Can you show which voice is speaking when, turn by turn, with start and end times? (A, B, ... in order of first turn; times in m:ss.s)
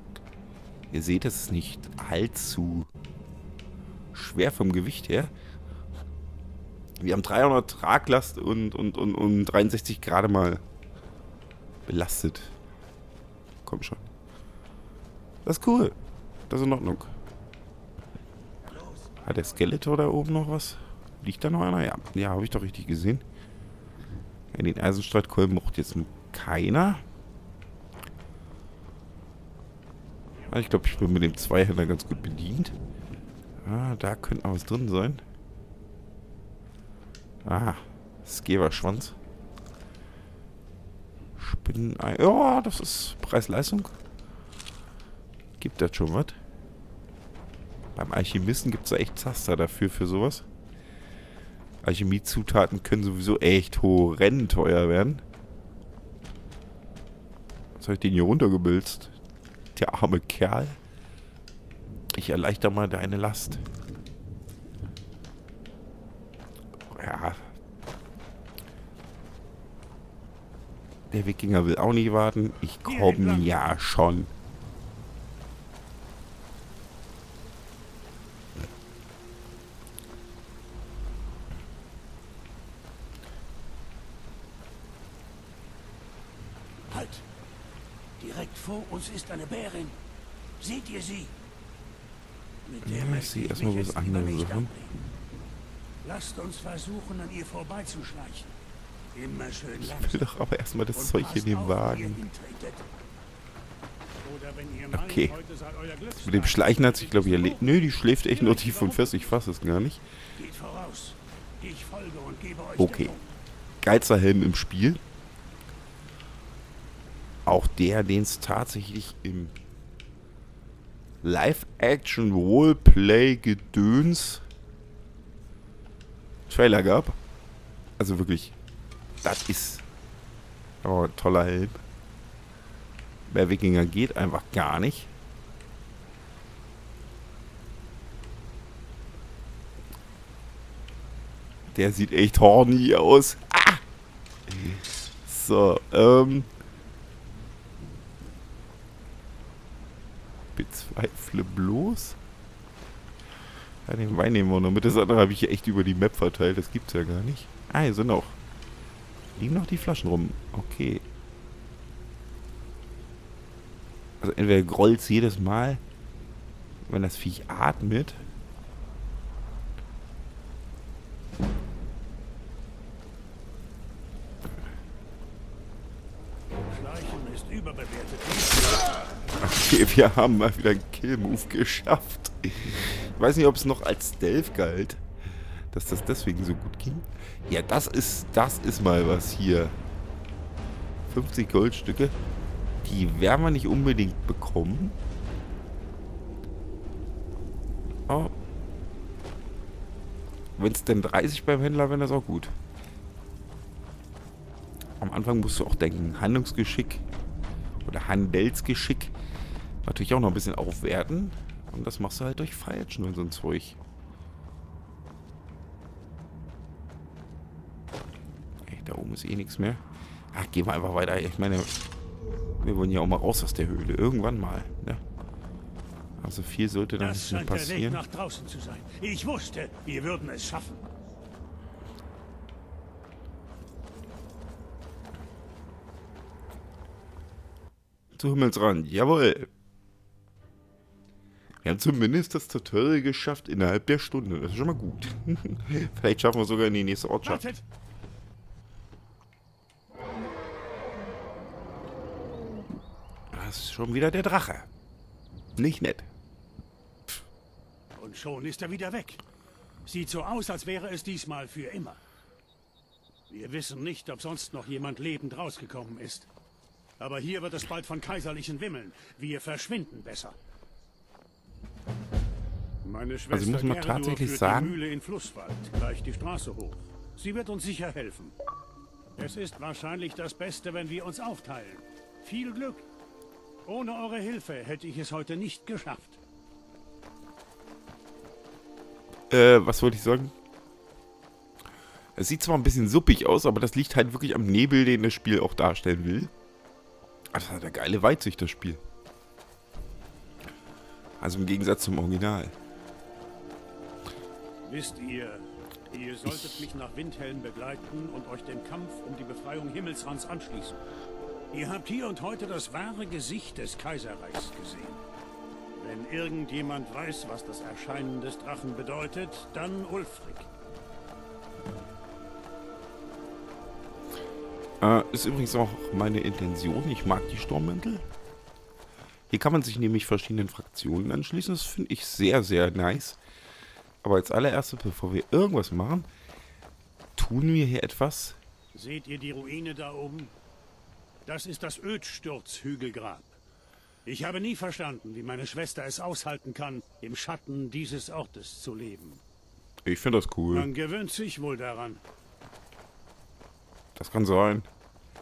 0:00.9-0:02.9 A
0:04.1-0:05.3 A
0:07.0-0:10.6 A
0:11.8-0:12.5 A
0:13.6-0:14.1 A
0:15.4-0:16.0 A
0:16.5-0:17.1 A
0:18.6-0:19.7 B
0:19.2-0:23.2 A
0:24.5-0:27.0 A
0:30.3-0:32.2 B
0:30.5-0:32.7 A
0:33.6-0:35.2 A
0:37.4-0:39.2 A
0:41.4-0:43.9 A
0:45.6-0:46.4 A
0:48.0-0:50.4 A
0:51.8-0:55.2 A
0:57.8-0:59.1 A
0:59.7-1:00.8 A
1:02.1-1:03.6 A
1:06.9-1:07.4 A
1:11.1-1:14.3 A
1:12.8-1:13.6 B
1:26.9-1:27.2 B
1:28.2-1:30.0 B
1:30.6-1:31.3 B
1:32.6-1:35.0 B
1:32.8-1:34.7 A
1:36.0-1:38.5 B
1:39.1-1:40.3 B
1:39.8-1:42.2 A
1:40.9-1:42.8 B
1:44.2-1:49.4 B
1:44.9-1:45.3 A
1:46.2-1:50.0 A
1:50.4-1:53.3 B
1:52.8-1:53.2 A
1:53.8-1:55.0 A
1:57.4-1:59.5 A
2:01.2-2:04.4 A
2:06.5-2:07.2 A
2:08.0-2:08.5 A
2:09.2-2:09.8 A
2:10.8-2:11.8 A
2:13.3-2:15.1 A
2:21.7-2:23.8 A
2:24.5-2:26.5 A
2:30.5-2:32.2 A
2:33.8-2:38.4 A
2:39.3-2:41.0 A
2:44.2-2:45.8 A
2:46.9-2:48.2 A
2:56.7-2:58.8 B
2:59.4-3:05.0 A
3:05.7-3:09.7 A
3:11.1-3:12.2 A
3:12.8-3:15.0 A
3:18.1-3:18.3 A
3:20.6-3:22.5 A
3:25.0-3:27.0 A
3:27.8-3:29.1 A
3:29.8-3:33.8 A
3:38.6-3:41.7 A
3:42.6-3:45.0 A
3:46.2-3:48.0 A
3:47.0-3:50.8 B
3:58.1-3:59.5 A
4:01.6-4:07.4 A
4:07.2-4:07.6 B
4:13.3-4:14.7 A
4:15.6-4:16.1 A
4:18.0-4:19.2 B
4:19.8-4:22.0 B
4:23.3-4:26.3 B
4:27.0-4:30.4 B
4:32.8-4:38.3 B
4:33.3-4:34.8 A
4:39.2-4:42.8 B
4:43.6-4:46.2 B
4:49.3-4:50.3 A
4:52.2-4:56.3 A
4:57.3-4:58.8 A
5:01.2-5:02.5 A
5:04.6-5:10.8 B
5:06.2-5:06.7 A
5:11.5-5:15.0 B
5:15.7-5:20.5 B
5:24.8-5:28.0 A
5:29.3-5:33.2 A
5:34.0-5:36.1 A
5:37.2-5:38.4 A
5:38.7-5:40.3 B
5:41.2-5:43.4 B
5:44.0-5:49.2 B
5:49.8-5:50.7 A
5:50.5-5:52.0 B
5:54.0-5:54.7 A